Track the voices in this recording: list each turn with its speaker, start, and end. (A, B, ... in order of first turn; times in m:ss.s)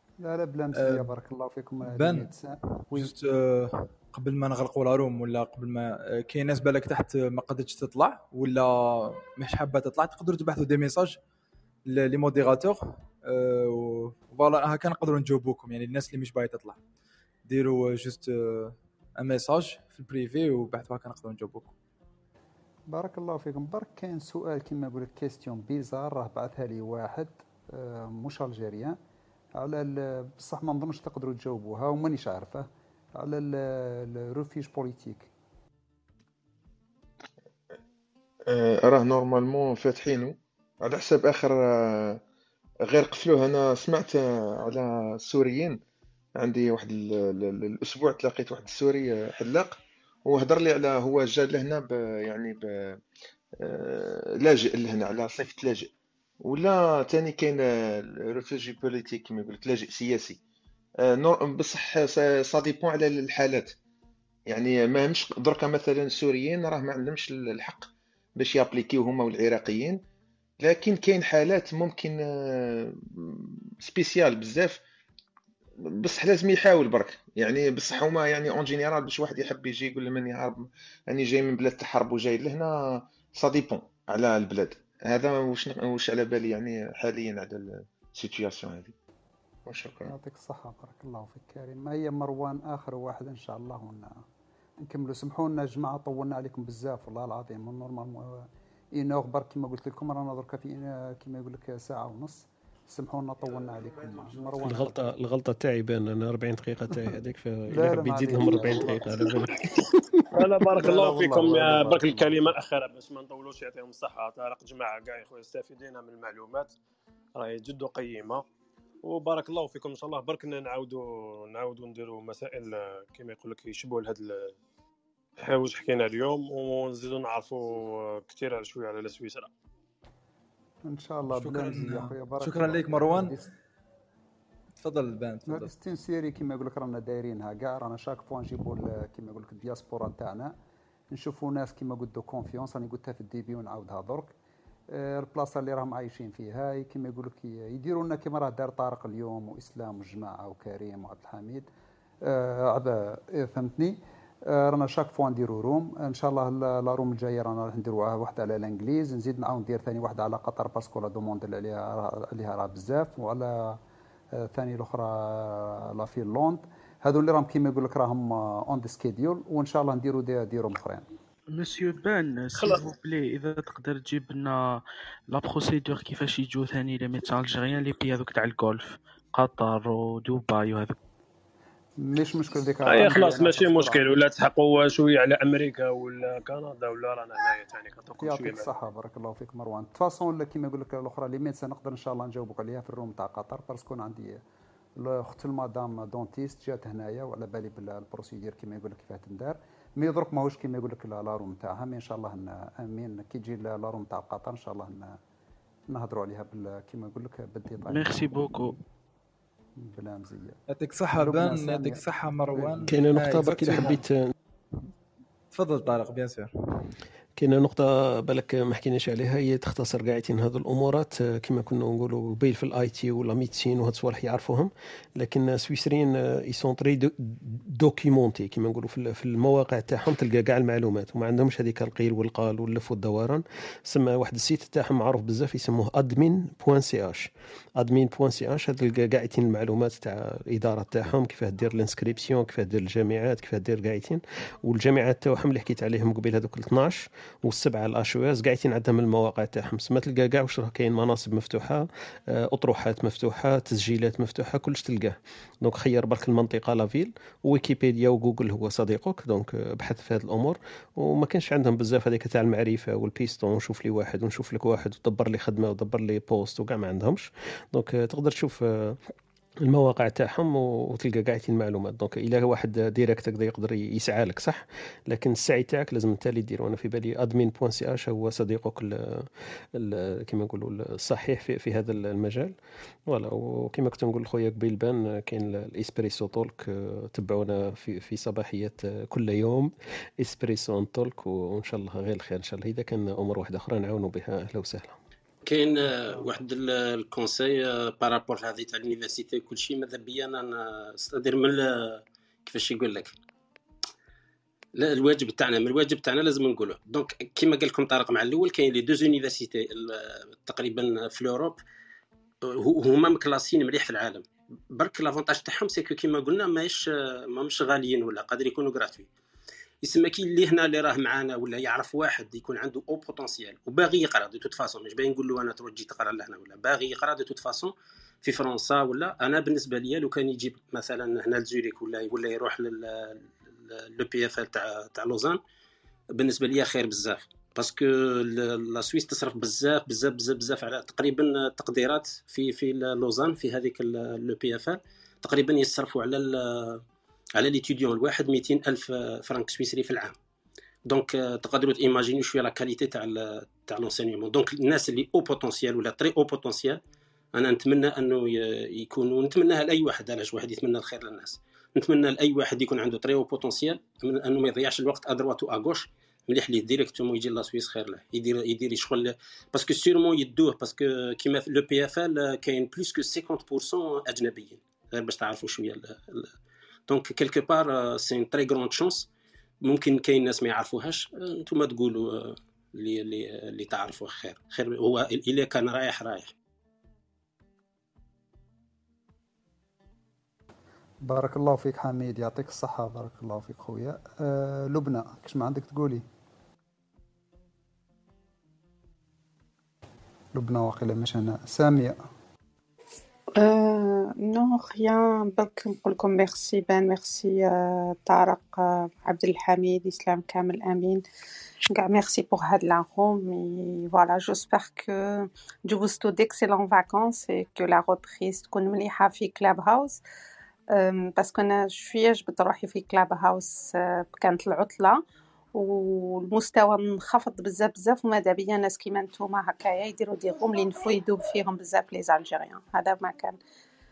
0:00.2-0:03.1 A
0:00.7-0:01.1 B
0:01.8-0:02.3 B
0:02.9-0:11.2 B
0:11.9-0:16.8 B
0:17.5-0:21.7 B
0:22.9-0:29.0 A
0:29.6-0:35.3 A
0:38.5-0:42.2 C
0:42.9-0:45.8 C
0:46.4-0:53.0 C
0:53.6-0:55.9 C
0:56.4-1:00.4 C
1:01.0-1:03.7 C
1:04.5-1:10.0 C
1:10.6-1:14.8 C
1:16.0-1:22.7 C
1:23.3-1:28.9 C
1:29.7-1:30.1 C
1:30.0-1:34.2 A
1:34.8-1:45.1 A
1:44.6-1:50.2 D
1:47.7-1:49.3 A
1:50.3-1:56.7 E
1:50.8-1:52.3 D
1:50.8-1:51.8 A
1:57.4-1:58.4 E
1:59.0-2:04.5 E
2:05.4-2:09.5 E
2:10.8-2:13.5 A
2:11.3-2:13.4 B
2:14.8-2:15.7 B
2:15.5-2:20.6 A
2:21.1-2:24.3 A
2:24.9-2:31.7 A
2:32.2-2:43.8 A
2:44.4-2:51.1 A
2:51.5-3:01.0 F
3:02.0-3:04.2 A
3:02.8-3:08.7 E
3:08.2-3:14.4 A
3:15.0-3:25.2 A
3:25.9-3:28.2 A
3:27.9-3:28.8 F
3:29.8-3:30.6 A
3:30.7-3:34.0 B
3:31.1-3:33.0 A
3:32.9-3:34.3 D
3:35.5-3:36.9 B
3:37.4-4:29.0 D
4:29.6-4:42.6 D
4:43.1-4:55.0 D
4:55.4-5:03.2 G
5:04.8-5:11.6 G
5:12.5-5:19.1 G
5:19.8-5:35.4 G
5:36.2-5:46.8 G
5:47.4-5:50.2 G
5:50.9-5:56.8 G
5:57.3-6:16.3 G
6:16.9-6:19.1 G
6:19.6-6:26.3 G
6:31.0-6:36.0 A
6:40.3-6:42.0 A
6:43.4-6:51.0 H
6:51.7-7:00.0 H
7:00.7-7:05.0 H
7:05.6-7:13.4 H